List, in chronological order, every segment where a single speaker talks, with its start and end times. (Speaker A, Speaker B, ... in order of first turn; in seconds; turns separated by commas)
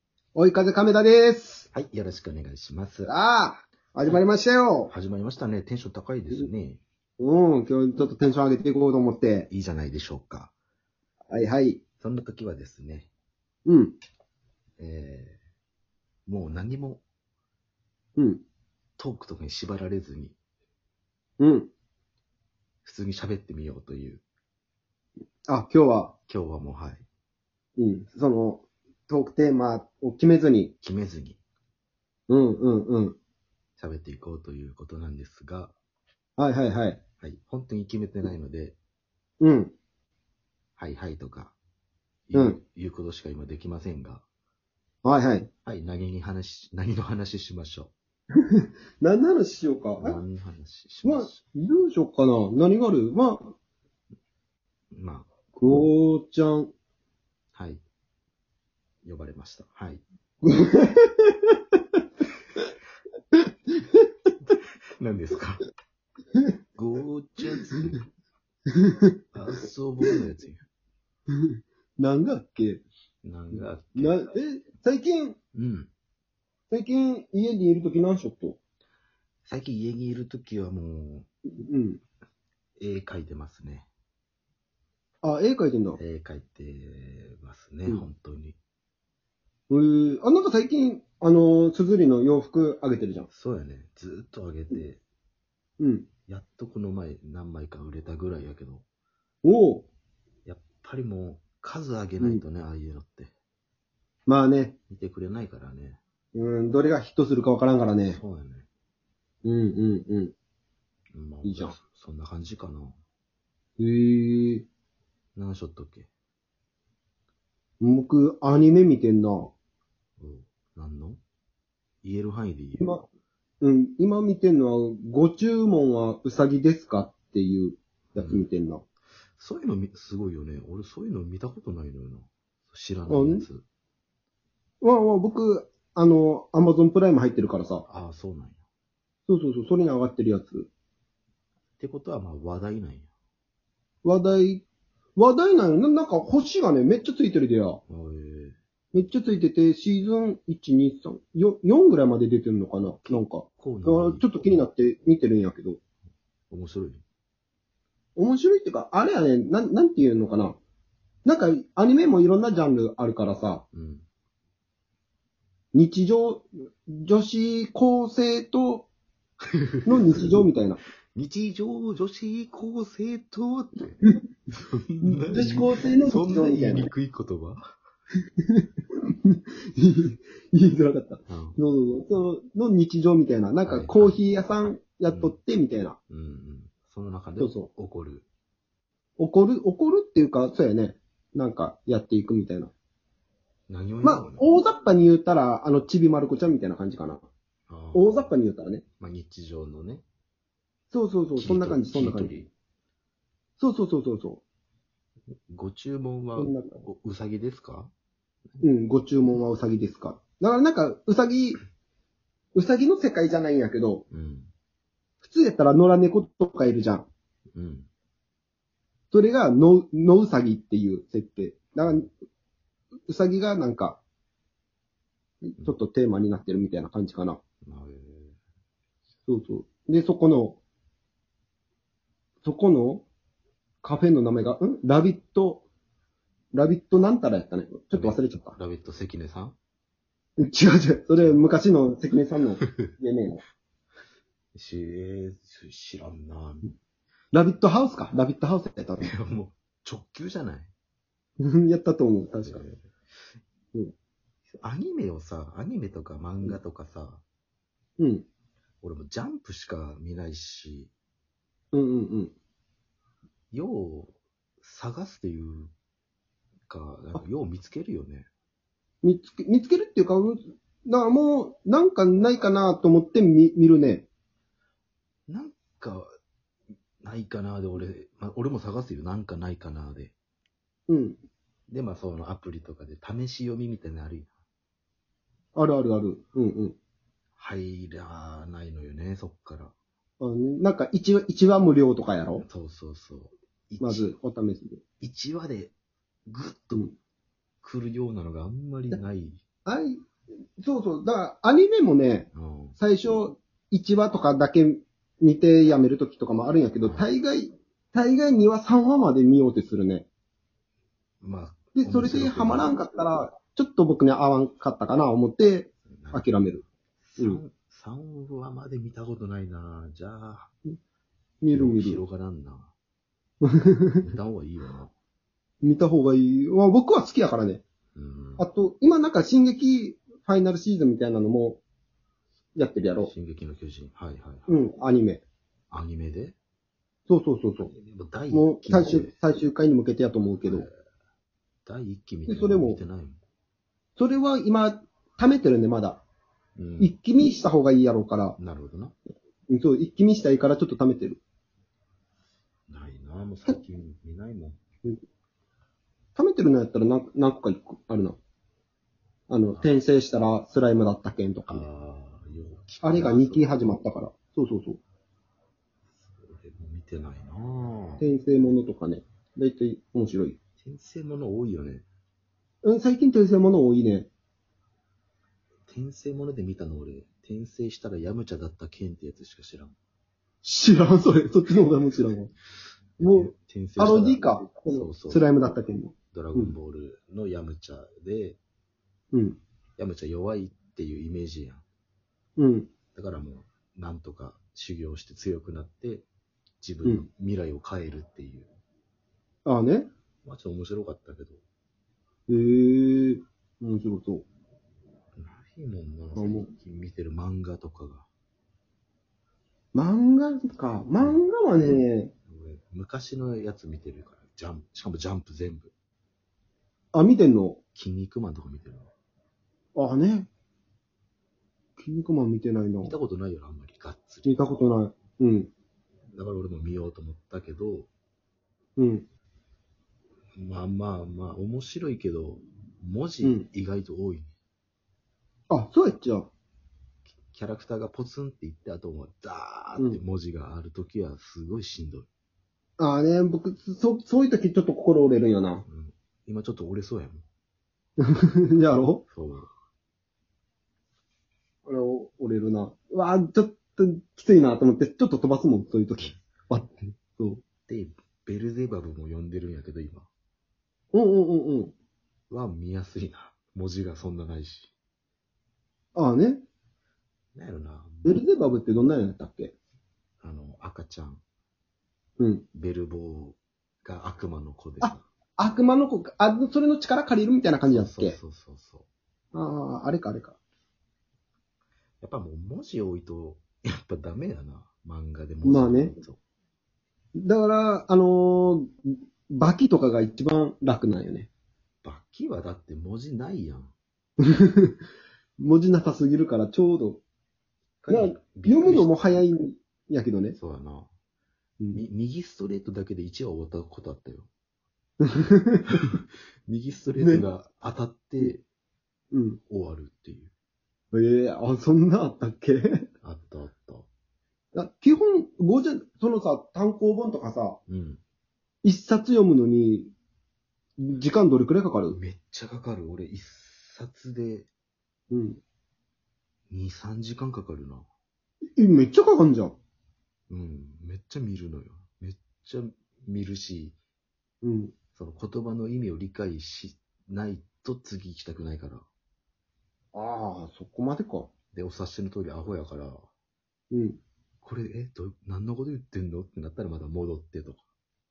Speaker A: 0.3-1.7, Speaker B: 1.7-3.1, Speaker A: 3.1-4.9, Speaker B: 4.9-6.8, Speaker A: 7.2-9.5, Speaker B: 9.5-10.5, Speaker A: 11.3-11.8, Speaker B: 12.0-13.1, Speaker A: 13.7-13.9, Speaker B: 14.8-15.4, Speaker B: 16.2-17.0, Speaker A: 18.2-18.4, Speaker B: 19.0-20.4, Speaker A: 21.4-21.7, Speaker B: 22.8-24.2, Speaker A: 25.5-26.1, Speaker B: 26.3-27.0, Speaker A: 27.8-30.7, Speaker B: 30.8-31.4, Speaker A: 32.3-33.2, Speaker B: 33.8-35.7, Speaker A: 36.4-37.0, Speaker B: 37.2-38.8, Speaker A: 39.4-39.7, Speaker B: 40.8-41.5, Speaker B: 42.3-44.2, Speaker A: 42.3-42.6, Speaker A: 45.0-45.5, Speaker B: 45.6-47.9, Speaker A: 48.5-50.2, Speaker B: 50.0-51.4, Speaker A: 51.0-53.5, Speaker B: 54.9-55.3, Speaker A: 55.5-56.7, Speaker B: 57.5-57.8, Speaker B: 59.0-60.0, Speaker A: 60.4-61.7, Speaker B: 65.0-65.6, Speaker B: 66.8-68.0, Speaker A: 68.8-69.1, Speaker B: 69.3-70.6, Speaker A: 72.0-72.8, Speaker B: 73.2-74.2, Speaker A: 74.0-75.4, Speaker B: 75.5-75.9, Speaker A: 76.7-78.6, Speaker B: 79.4-81.3, Speaker A: 81.6-82.0, Speaker B: 82.8-83.9, Speaker A: 85.2-86.0, Speaker B: 86.0-88.6, Speaker A: 89.7-93.3, Speaker B: 93.3-95.0, Speaker A: 95.8-96.1, Speaker B: 96.3-98.8, Speaker A: 99.4-99.9, Speaker B: 100.4-103.3, Speaker A: 104.3-104.7, Speaker B: 104.9-106.0, Speaker A: 106.3-108.2, Speaker B: 108.1-108.7, Speaker A: 109.4-110.3, Speaker B: 111.1-113.0, Speaker A: 111.4-111.8, Speaker A: 113.8-114.7, Speaker B: 115.3-116.1, Speaker A: 117.8-119.5, Speaker B: 120.2-121.2, Speaker B: 122.0-122.9, Speaker A: 122.8-123.0, Speaker A: 123.6-128.8, Speaker B: 128.1-128.5, Speaker B: 129.4-133.6, Speaker A: 133.1-133.5, Speaker A: 134.8-137.8, Speaker B: 137.9-138.6, Speaker A: 139.3-140.7, Speaker B: 141.8-143.1, Speaker A: 144.0-144.6, Speaker A: 145.2-147.8, Speaker B: 147.9-148.6, Speaker A: 148.9-155.8, Speaker B: 153.1-154.6, Speaker B: 156.5-157.0, Speaker A: 158.2-160.6, Speaker A: 161.2-163.6, Speaker B: 163.7-164.1, Speaker A: 165.7-168.9, Speaker B: 169.5-170.4, Speaker A: 169.8-170.8, Speaker B: 171.1-177.7, Speaker A: 175.0-176.9, Speaker A: 179.2-186.0, Speaker B: 181.3-181.6, Speaker B: 183.7-185.3, Speaker B: 186.1-188.2, Speaker A: 187.4-187.7, Speaker A: 189.2-192.7, Speaker B: 193.7-194.4, Speaker A: 194.0-197.2, Speaker B: 197.7-198.3, Speaker A: 197.9-198.8, Speaker B: 199.0-200.0, Speaker A: 200.9-202.3, Speaker B: 201.3-202.5, Speaker A: 203.6-204.4, Speaker B: 205.5-207.9, Speaker A: 206.4-206.8, Speaker A: 208.6-211.6, Speaker A: 212.5-214.0, Speaker B: 214.1-214.5, Speaker A: 215.2-217.1, Speaker B: 217.5-217.9, Speaker A: 219.1-222.1, Speaker A: 223.1-224.0, Speaker A: 225.4-227.4, Speaker B: 227.6-228.4, Speaker A: 229.3-230.6, Speaker A: 232.4-233.1, Speaker A: 233.8-235.6, Speaker A: 236.5-238.6, Speaker B: 237.9-239.6, Speaker A: 240.4-243.4, Speaker B: 241.2-241.4, Speaker B: 244.5-246.7, Speaker A: 247.3-249.1, Speaker B: 249.0-250.7, Speaker A: 251.4-252.6, Speaker B: 252.4-252.8, Speaker B: 254.6-257.2, Speaker A: 258.0-258.2, Speaker B: 258.8-260.9, Speaker A: 261.7-262.3, Speaker B: 263.5-265.7, Speaker B: 266.7-268.3, Speaker A: 269.0-274.1, Speaker B: 275.3-276.1, Speaker B: 277.0-280.1, Speaker A: 280.9-281.2, Speaker B: 281.7-284.3, Speaker A: 285.5-286.8, Speaker B: 287.4-289.7, Speaker A: 290.2-292.4, Speaker B: 292.4-294.1, Speaker A: 293.8-294.8, Speaker B: 295.0-295.7, Speaker B: 296.3-296.9, Speaker B: 297.6-299.4, Speaker A: 299.6-300.0, Speaker A: 300.6-310.1, Speaker B: 302.3-302.8, Speaker B: 306.8-307.1, Speaker B: 311.2-312.7, Speaker A: 311.7-316.6, Speaker B: 315.9-316.3, Speaker B: 317.0-320.5, Speaker A: 321.4-322.0, Speaker B: 321.5-322.7, Speaker A: 323.4-324.0, Speaker B: 324.0-324.9, Speaker A: 325.6-327.6, Speaker B: 327.9-328.4, Speaker A: 328.4-331.6, Speaker A: 332.6-333.1, Speaker B: 333.0-334.5, Speaker A: 334.5-335.2, Speaker B: 335.7-336.4, Speaker A: 337.1-337.7, Speaker B: 337.6-339.1, Speaker A: 338.3-340.7, Speaker B: 340.4-340.7, Speaker B: 341.6-343.2, Speaker A: 342.3-342.8, Speaker A: 344.0-346.0, Speaker B: 346.6-346.9, Speaker A: 346.8-348.4, Speaker B: 348.4-348.9, Speaker A: 349.5-351.2, Speaker B: 352.7-354.6, Speaker A: 356.1-358.2, Speaker A: 359.3-361.6, Speaker B: 361.5-363.7, Speaker A: 362.8-364.8, Speaker B: 366.0-368.0, Speaker A: 368.0-370.4, Speaker B: 370.6-371.9, Speaker A: 372.6-374.1, Speaker B: 375.7-379.7, Speaker A: 380.4-382.3, Speaker B: 383.0-385.3, Speaker A: 383.0-386.5, Speaker B: 386.1-388.4, Speaker A: 389.1-389.4, Speaker B: 389.8-391.6, Speaker A: 392.4-392.7, Speaker B: 392.9-396.1, Speaker B: 396.6-398.5, Speaker A: 399.4-399.9, Speaker B: 400.2-401.4, Speaker A: 402.3-404.2, Speaker B: 405.2-408.1, Speaker A: 406.1-406.5, Speaker A: 409.7-412.1, Speaker B: 411.0-411.2, Speaker B: 412.3-415.7, Speaker A: 416.9-417.6, Speaker B: 417.7-418.9, Speaker A: 419.8-420.3, Speaker A: 421.8-422.9, Speaker B: 422.8-424.5, Speaker A: 424.2-425.5, Speaker B: 426.1-427.9, Speaker A: 428.8-429.1, Speaker B: 430.4-434.3, Speaker A: 433.2-433.5, Speaker A: 435.5-436.3, Speaker B: 437.1-442.1, Speaker A: 442.8-445.6, Speaker B: 445.6-447.2, Speaker A: 448.0-449.0, Speaker B: 449.1-449.5, Speaker A: 451.6-457.4, Speaker B: 457.7-460.1, Speaker A: 460.9-461.7, Speaker B: 462.3-464.7, Speaker A: 465.9-466.4, Speaker B: 467.3-468.2, Speaker A: 468.0-469.5, Speaker B: 470.2-471.2, Speaker A: 472.2-472.4, Speaker B: 472.5-475.1, Speaker A: 474.8-478.2, Speaker B: 477.7-478.9, Speaker A: 479.3-480.4, Speaker B: 482.0-486.2, Speaker A: 485.4-485.9, Speaker A: 487.2-491.3, Speaker B: 491.8-493.7, Speaker A: 494.2-494.8, Speaker A: 495.4-497.0, Speaker B: 497.8-499.2, Speaker A: 497.9-500.4, Speaker B: 500.3-500.9, Speaker A: 501.6-501.8, Speaker B: 501.7-504.3, Speaker A: 505.0-505.6, Speaker B: 505.7-508.4, Speaker A: 507.0-507.2, Speaker A: 509.1-509.4, Speaker B: 509.5-510.3, Speaker A: 510.9-512.8, Speaker B: 513.0-513.9, Speaker A: 514.5-517.6, Speaker B: 517.7-518.0, Speaker A: 518.6-519.9, Speaker A: 520.8-522.0, Speaker B: 521.9-524.5, Speaker A: 525.1-525.4, Speaker B: 526.5-527.8, Speaker A: 528.6-529.5, Speaker B: 530.3-533.8, Speaker A: 534.4-534.7, Speaker B: 534.9-538.8, Speaker A: 539.9-541.3, Speaker B: 541.5-543.0, Speaker A: 543.7-544.0, Speaker B: 544.4-547.6